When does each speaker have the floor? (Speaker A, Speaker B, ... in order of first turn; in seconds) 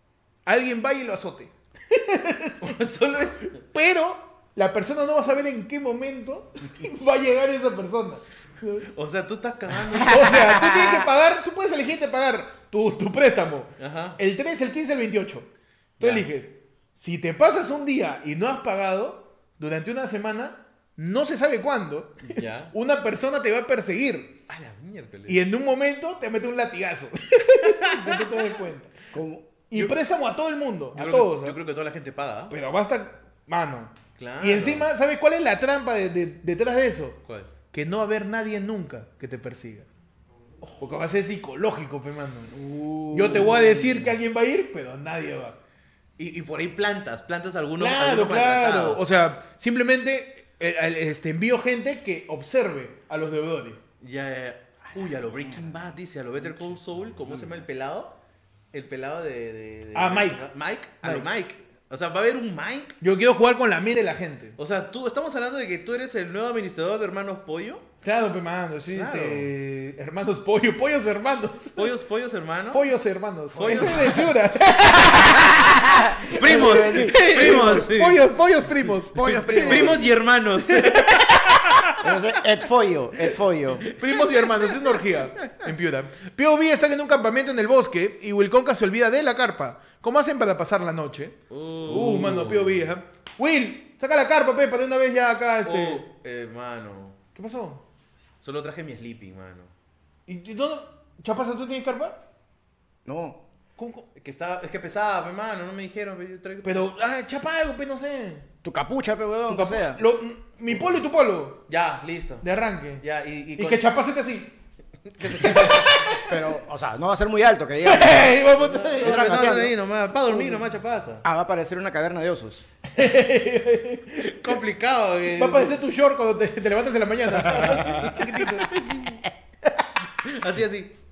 Speaker A: 0.5-2.8, 3.6-8.9, 10.0-24.4, 25.3-28.9, 29.7-31.6, 32.5-37.2, 37.7-39.9, 40.8-42.5, 43.1-45.6, 47.8-53.8, 59.9-60.5, 61.0-61.3, 63.0-64.5, 68.0-72.0, 72.7-80.0, 80.7-82.0, 83.8-96.0, 97.3-97.8, 100.3-102.2, 103.8-104.1, 106.6-108.5, 109.5-111.6, 112.4-113.0, 113.6-114.5, 115.4-116.4, 117.8-119.5, 120.3-120.6, 122.9-124.6, 125.3-128.7
Speaker B: 2.6-3.6, 8.9-10.4, 13.8-14.2, 16.0-16.2, 22.2-22.7, 24.5-25.4, 30.9-32.5, 34.2-34.9, 37.2-37.5, 43.2-44.1, 46.2-49.0, 54.0-58.1, 58.7-63.0, 64.6-67.8, 68.9-69.5, 71.8-72.8, 73.5-74.3, 76.2-78.2, 79.2-81.9, 84.0-85.0, 91.5-92.8, 95.6-97.2, 98.4-99.7, 104.2-106.9, 111.7-112.4, 113.0-113.8, 115.2-115.8, 118.7-121.2, 124.2-125.8, 127.5-129.2, 130.2-131.0
Speaker C: 29.1-29.5, 42.5-43.6, 54.9-56.0, 56.5-57.4, 75.6-77.7, 79.1-80.0, 82.0-83.8, 103.0-103.4, 108.6-110.0, 115.2-119.8, 121.2-122.7